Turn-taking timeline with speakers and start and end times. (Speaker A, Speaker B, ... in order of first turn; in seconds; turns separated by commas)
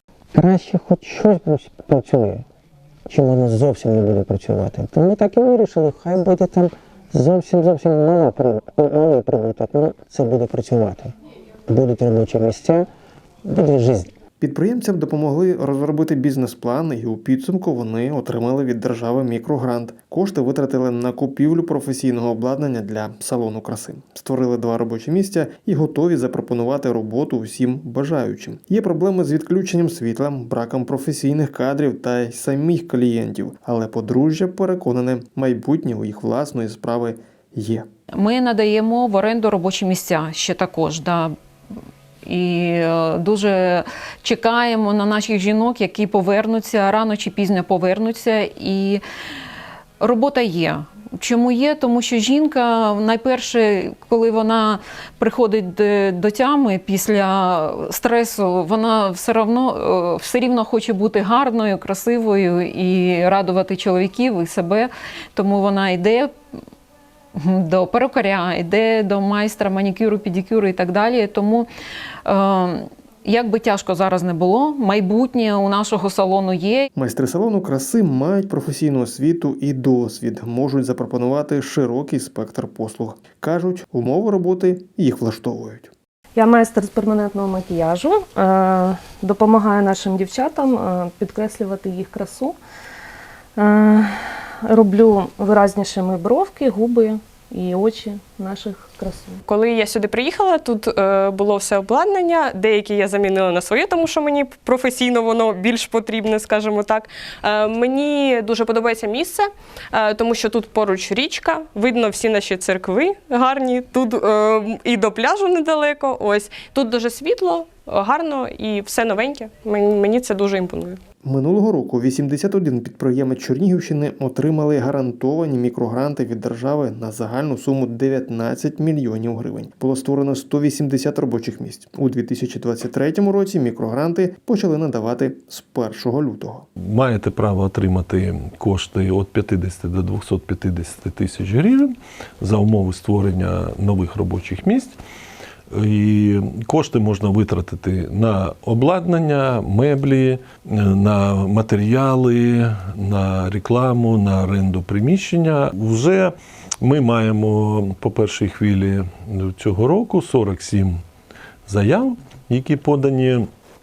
Speaker A: 0.3-2.4, Speaker A: 3.1-11.1, Speaker A: 11.7-12.9, Speaker A: 13.4-14.1, Speaker B: 14.4-37.9, Speaker C: 38.2-41.3, Speaker C: 42.2-49.0, Speaker C: 50.0-66.3, Speaker C: 67.3-71.7, Speaker C: 72.2-76.8, Speaker B: 76.9-85.9, Speaker D: 86.3-92.6, Speaker D: 93.5-99.4, Speaker E: 99.5-109.4, Speaker E: 109.9-120.9, Speaker B: 121.2-136.7, Speaker F: 136.8-144.9, Speaker F: 145.7-161.0, Speaker F: 161.7-163.5